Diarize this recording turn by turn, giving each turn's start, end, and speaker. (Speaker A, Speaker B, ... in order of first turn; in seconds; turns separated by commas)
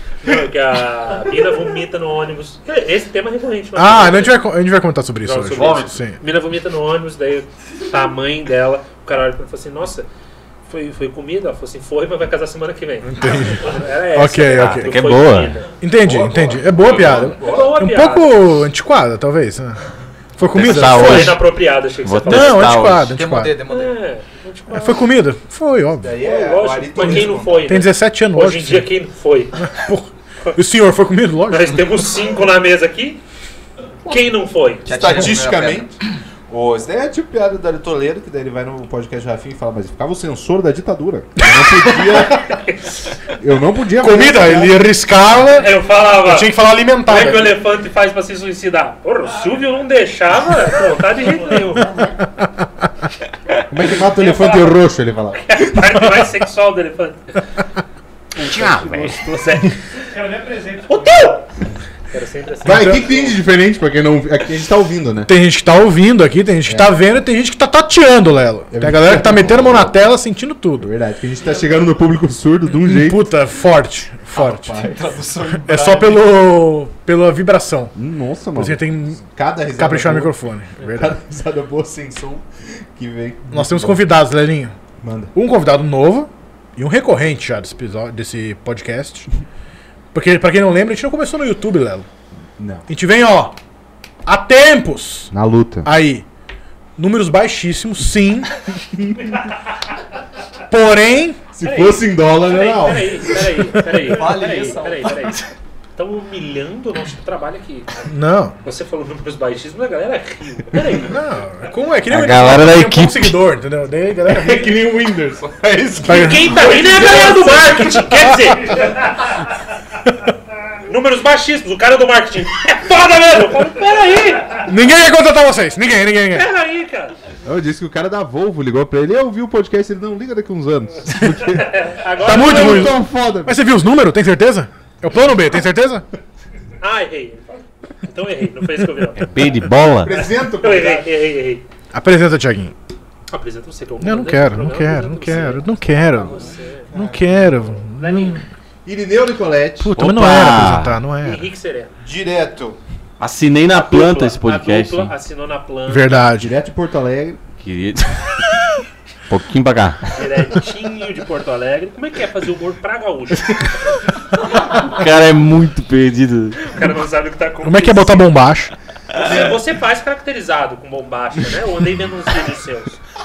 Speaker A: 0.2-4.5, Speaker B: 3.7-6.2, Speaker A: 5.2-10.1, Speaker C: 5.4-5.9, Speaker A: 10.7-15.7, Speaker B: 13.0-14.9, Speaker C: 14.5-15.6, Speaker B: 15.8-19.8, Speaker D: 16.0-17.7, Speaker A: 16.8-18.6, Speaker B: 20.4-21.4, Speaker C: 20.4-21.4, Speaker A: 20.6-22.7, Speaker C: 22.0-23.1, Speaker B: 22.2-23.5, Speaker E: 23.1-23.9, Speaker A: 23.7-25.1, Speaker B: 24.7-26.2, Speaker D: 26.0-27.8, Speaker A: 26.2-29.7, Speaker B: 27.0-28.9, Speaker B: 29.6-32.0, Speaker A: 31.5-33.2, Speaker A: 34.0-35.2, Speaker E: 34.8-35.9, Speaker D: 34.9-35.9, Speaker D: 36.5-42.6, Speaker B: 41.4-42.3, Speaker A: 42.1-43.1, Speaker D: 43.3-44.8, Speaker B: 44.0-47.6, Speaker A: 45.5-52.1, Speaker D: 53.7-56.0, Speaker A: 54.1-54.8, Speaker A: 55.3-57.6, Speaker A: 58.3-61.5, Speaker C: 58.4-59.2, Speaker B: 60.2-60.9, Speaker A: 62.1-63.4, Speaker B: 62.6-63.1, Speaker D: 62.6-65.3, Speaker B: 65.2-70.9, Speaker D: 66.7-67.0, Speaker D: 68.7-70.0, Speaker D: 70.8-73.3, Speaker B: 72.7-74.8, Speaker D: 74.3-75.2, Speaker E: 74.7-76.2, Speaker B: 75.6-77.9, Speaker D: 77.9-84.0, Speaker B: 78.5-81.1, Speaker B: 83.5-84.7, Speaker D: 85.0-85.3, Speaker B: 85.3-89.3, Speaker B: 90.1-92.1, Speaker D: 92.6-92.9, Speaker B: 92.9-93.5, Speaker B: 94.2-95.3, Speaker D: 95.3-95.9, Speaker B: 95.8-96.2, Speaker B: 97.0-98.5, Speaker D: 99.0-99.4, Speaker B: 100.7-101.4, Speaker D: 101.5-103.6, Speaker A: 101.6-105.4, Speaker B: 103.7-104.0, Speaker E: 104.0-105.4, Speaker A: 106.0-108.1, Speaker B: 108.0-108.5, Speaker A: 108.6-111.2, Speaker B: 111.0-114.8, Speaker C: 112.1-113.3, Speaker D: 114.3-118.0, Speaker B: 116.0-118.6, Speaker A: 116.0-119.5, Speaker A: 120.8-124.7, Speaker B: 124.5-126.5, Speaker A: 126.3-127.2, Speaker D: 127.4-133.6, Speaker A: 131.4-133.0, Speaker B: 132.2-136.1, Speaker A: 136.8-139.4, Speaker C: 139.2-140.1, Speaker D: 140.0-141.1, Speaker A: 140.1-141.6, Speaker B: 141.9-142.7, Speaker A: 143.3-146.9, Speaker B: 144.0-148.4, Speaker D: 146.9-147.8, Speaker A: 147.9-148.4, Speaker D: 148.8-149.9, Speaker B: 149.8-151.5, Speaker C: 150.0-151.0, Speaker A: 151.2-151.9, Speaker D: 152.0-152.8, Speaker C: 153.2-155.1, Speaker A: 153.7-156.2, Speaker B: 155.9-156.5, Speaker D: 156.4-157.4, Speaker C: 157.6-158.5, Speaker C: 159.3-160.2, Speaker A: 160.1-163.7, Speaker C: 164.8-166.6, Speaker A: 166.6-168.3, Speaker B: 167.6-168.7, Speaker A: 169.1-173.0, Speaker D: 169.2-169.5